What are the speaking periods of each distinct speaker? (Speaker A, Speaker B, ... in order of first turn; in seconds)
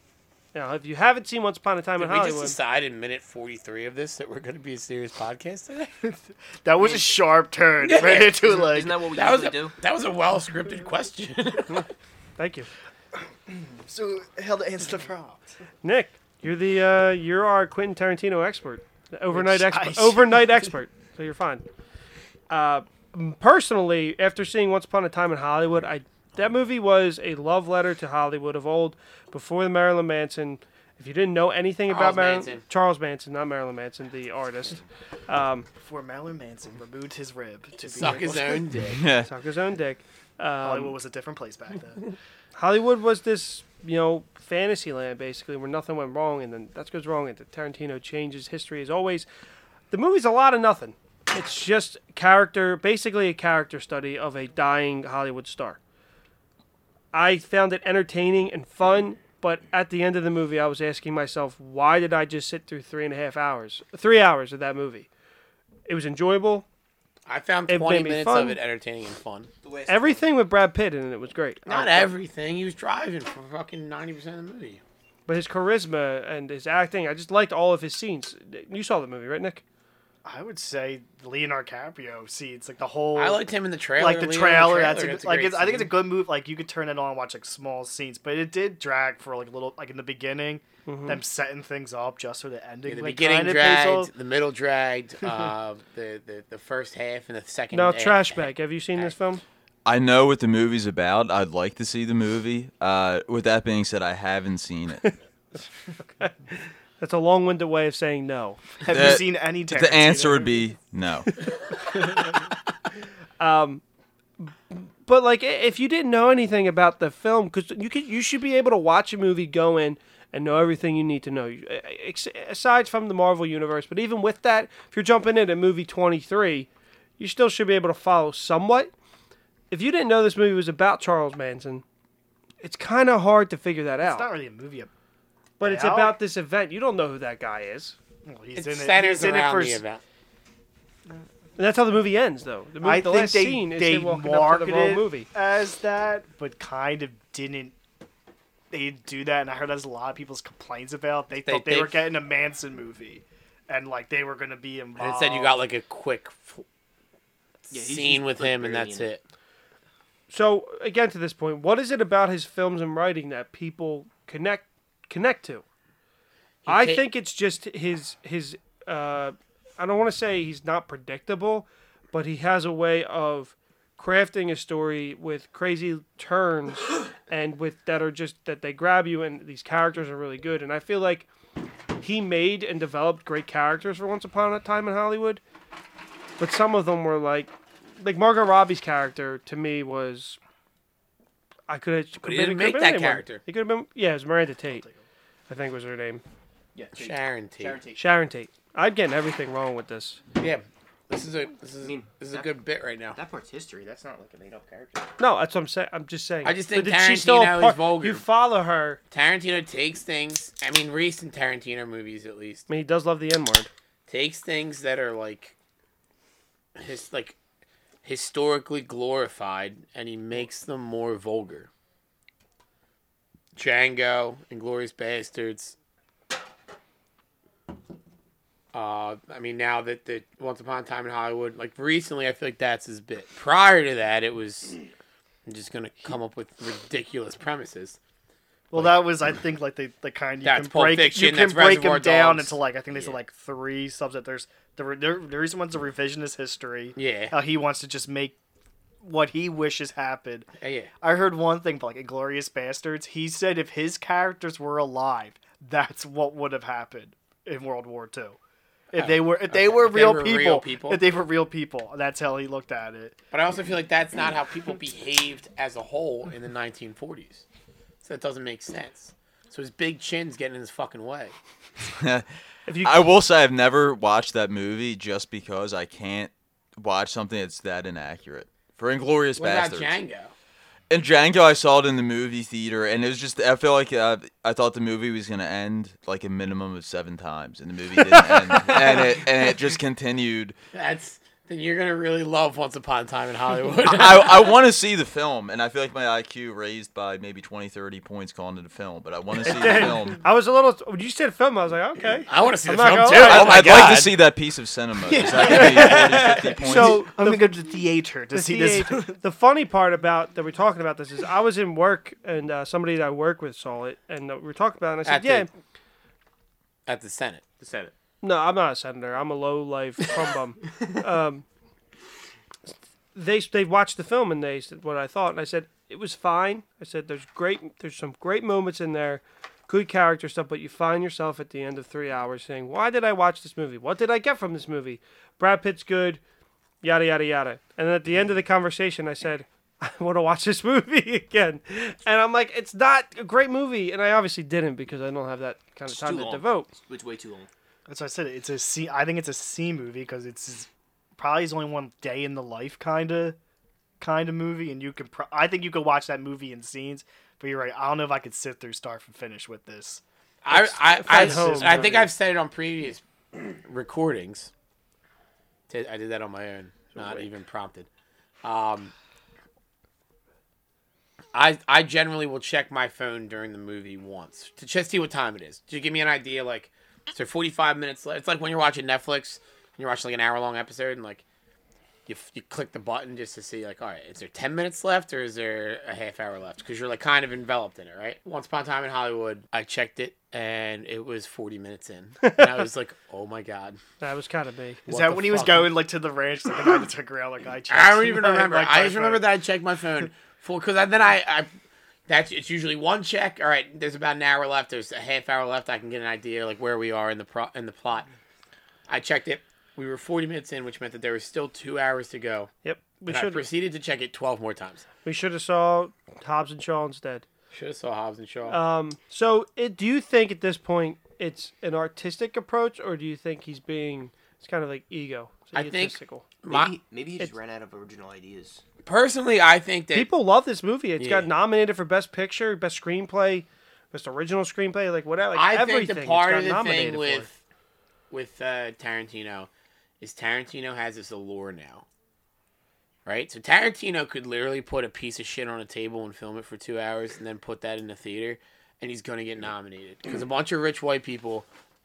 Speaker A: 0.5-2.6, 12.4-12.7, 15.8-21.6, 22.5-35.7, 39.2-41.0, 42.5-49.2, 49.9-55.8, 57.1-65.1, 65.8-66.7, 67.7-68.6, 69.9-72.1, 75.3-79.6, 90.8-91.2, 97.7-99.4, 106.1-108.6, 113.4-113.8, 114.4-128.9, 129.7-131.8, 132.6-134.2, 135.6-137.9, 141.6-145.3, 160.3-165.6, 166.7-181.3, 182.0-185.4, 186.4-190.4, 191.7-194.8, 195.5-196.2, 197.9-200.2, 205.2-209.0, 212.7-213.7, 272.7-273.0, 299.4-303.8, 305.6-306.0, 306.6-307.5, 308.3-315.5, 318.2-321.4, 323.1-336.2, 336.8-346.7, 361.0-362.0, 392.2-392.5, 394.0-394.8, 412.6-413.4, 415.0-417.2, 418.5-426.2, 429.9-437.3
Speaker B: 2.0-5.9, 7.8-8.4, 9.1-11.8, 31.9-32.6, 37.8-39.0, 67.3-69.5, 71.7-74.8, 83.1-86.0, 92.8-99.1, 138.5-140.0, 151.4-152.1, 155.0-156.6, 157.7-159.2, 166.6-167.0, 192.2-193.4, 196.9-197.8, 200.4-203.2, 206.4-208.2, 209.1-212.7, 214.1-215.5, 216.8-217.4, 218.0-221.7, 223.6-225.8, 228.7-234.8, 235.4-238.0, 240.4-243.2, 246.9-247.3, 250.6-250.9, 258.9-261.0, 263.3-267.4, 268.0-271.3, 279.4-280.3, 290.7-294.5, 302.3-304.1, 315.1-315.5, 316.9-317.4, 360.4-364.5, 365.7-367.9, 368.4-368.9, 371.3-381.2, 382.1-393.8, 394.9-395.8, 397.7-401.5, 402.1-408.1, 408.9-412.5, 413.1-414.8, 417.5-418.6, 425.5-426.7, 428.8-430.1, 431.0-431.3, 435.3-437.4, 438.1-439.5, 440.0-441.8, 443.1-451.5
Speaker C: 6.0-9.0, 13.5-15.4, 19.3-20.6, 35.8-38.7, 40.6-42.1, 80.2-83.4, 84.0-94.1, 108.8-110.6, 134.0-134.9, 135.6-136.1, 138.2-139.8, 142.8-147.8, 148.7-155.5, 194.7-195.0, 238.7-248.4, 249.0-250.5, 251.0-258.4, 258.9-263.1, 305.1-309.2, 347.9-353.4, 354.0-362.1, 394.9-399.2
Speaker D: 8.2-9.8, 69.6-70.2, 157.7-159.1, 196.7-198.0, 201.8-202.5, 203.1-205.1, 305.6-306.3, 317.6-317.9, 345.9-347.5, 426.5-428.6
Speaker E: 38.9-39.3, 99.8-105.1, 108.9-111.3, 272.0-272.2, 272.8-279.9, 280.9-290.6, 293.8-300.2, 303.2-307.0